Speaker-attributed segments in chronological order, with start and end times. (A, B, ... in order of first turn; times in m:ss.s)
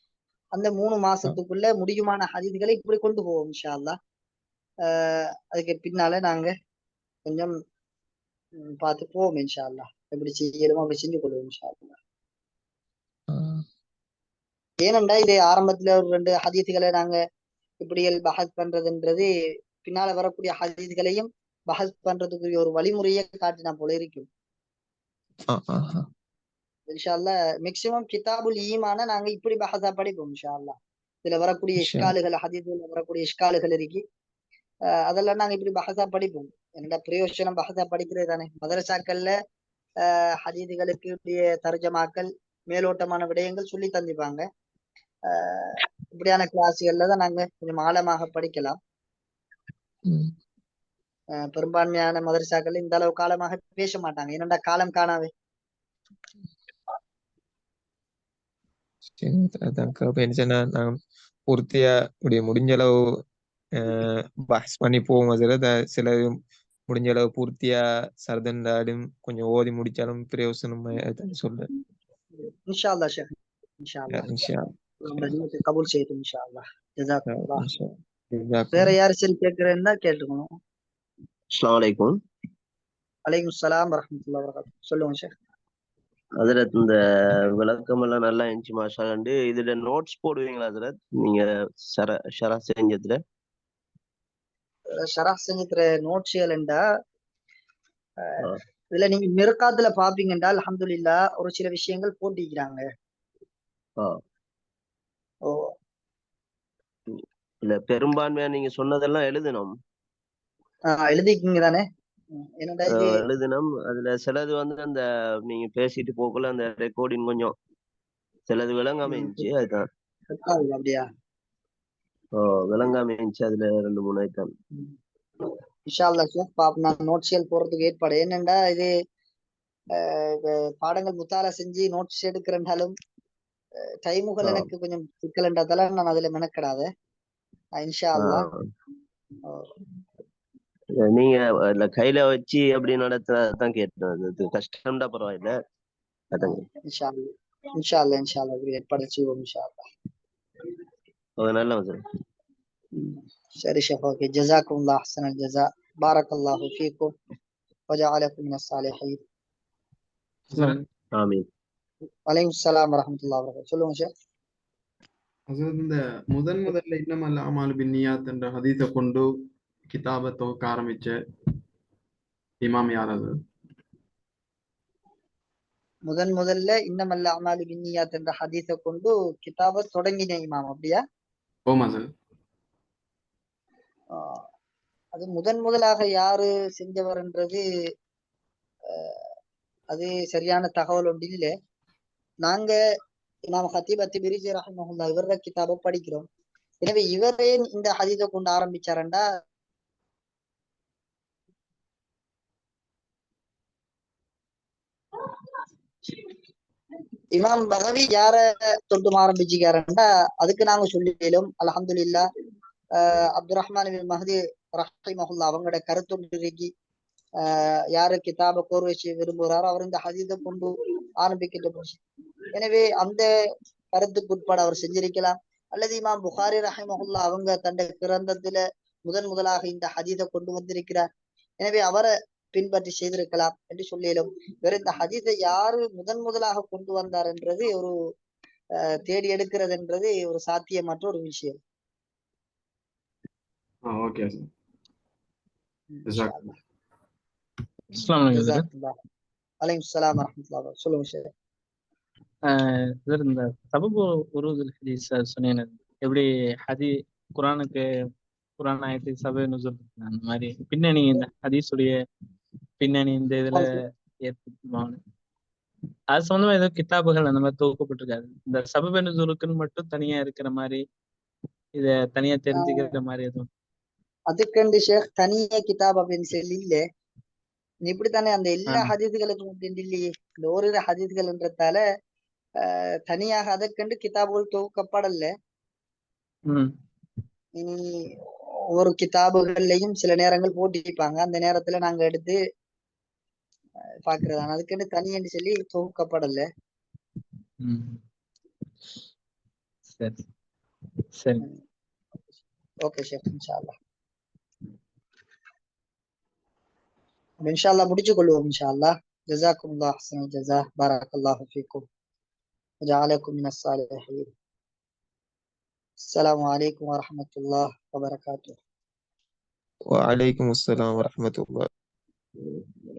0:00.6-0:04.0 A
0:04.9-0:06.5 A
0:07.3-0:07.6 A
0:08.6-0:12.0 A
0:13.3-0:13.6 B
0:14.8-0:17.2 A
0:17.8-0:19.3 A
0:19.8-0:24.3 A
0:25.5-0:26.1 B
0:26.9-0:34.0 A
0:31.8-0:32.1 B
0:34.9-0:39.4 A
0:40.0-0:44.4 A
0:45.3-0:48.8 A
0:50.1-0:50.3 B
0:51.4-0:55.3 A
0:59.1-1:02.9 B
1:03.8-1:06.4 B
1:06.9-1:11.7 B
1:12.7-1:14.4 A
1:14.1-1:15.3 B
1:15.0-1:17.6 A
1:17.3-1:19.0 B
1:18.7-1:20.5 A
1:21.5-1:22.1 C
1:23.3-1:25.3 A
1:26.4-1:33.2 C
1:35.0-1:36.8 A
1:38.2-1:42.8 A
1:45.5-1:45.7 A
1:47.1-1:49.7 C
1:50.9-1:53.2 A
1:52.9-1:57.5 C
1:58.5-1:59.8 C
1:59.1-1:59.5 A
2:00.3-2:01.1 A
2:02.4-2:04.5 C
2:05.9-2:08.9 A
2:10.0-2:13.0 A
2:14.0-2:16.9 A
2:17.8-2:18.5 A
2:18.2-2:18.6 C
2:19.4-2:19.7 A
2:21.0-2:25.6 C
2:26.3-2:26.6 C
2:26.4-2:29.9 A
2:31.4-2:32.0 C
2:33.0-2:37.1 A
2:37.9-2:39.2 A
2:40.5-2:40.8 D
2:40.5-2:40.8 E
2:41.2-2:41.5 C
2:42.3-2:44.1 A
2:45.5-2:49.3 E
2:49.9-2:51.2 E
2:52.6-2:53.4 E
2:56.1-3:01.0 A
3:01.7-3:02.1 E
3:04.1-3:04.4 A
3:05.2-3:07.6 A
3:08.9-3:09.2 A
3:09.9-3:11.5 A
3:12.5-3:12.8 A
3:13.5-3:16.3 A
3:16.8-3:19.2 A
3:27.4-3:32.3 A
3:33.0-3:36.7 A
3:37.4-3:42.0 A
3:42.6-3:43.3 A
3:43.9-3:51.1 A
3:51.6-3:58.0 A
3:58.8-4:01.6 A
4:03.9-4:04.5 E
4:05.9-4:06.6 A
4:06.1-4:06.4 E
4:07.9-4:08.6 D
4:08.3-4:09.0 A
4:09.6-4:11.3 A
4:12.5-4:17.9 D
4:18.6-4:22.0 D
4:22.8-4:23.7 D
4:24.3-4:25.0 D
4:26.1-4:30.8 D
4:31.8-4:33.5 D
4:32.5-4:32.9 A
4:34.3-4:36.8 A
4:37.9-4:41.8 A
4:38.7-4:38.9 D
4:42.6-4:45.3 A
4:47.6-4:48.1 A
4:48.7-4:52.4 A
4:54.1-4:56.5 A
4:57.6-4:58.0 D
4:59.9-5:00.3 D
5:01.2-5:01.4 D
5:02.8-5:03.8 A
5:07.4-5:11.9 A
5:12.9-5:14.3 A
5:16.1-5:18.6 A
5:19.9-5:21.7 B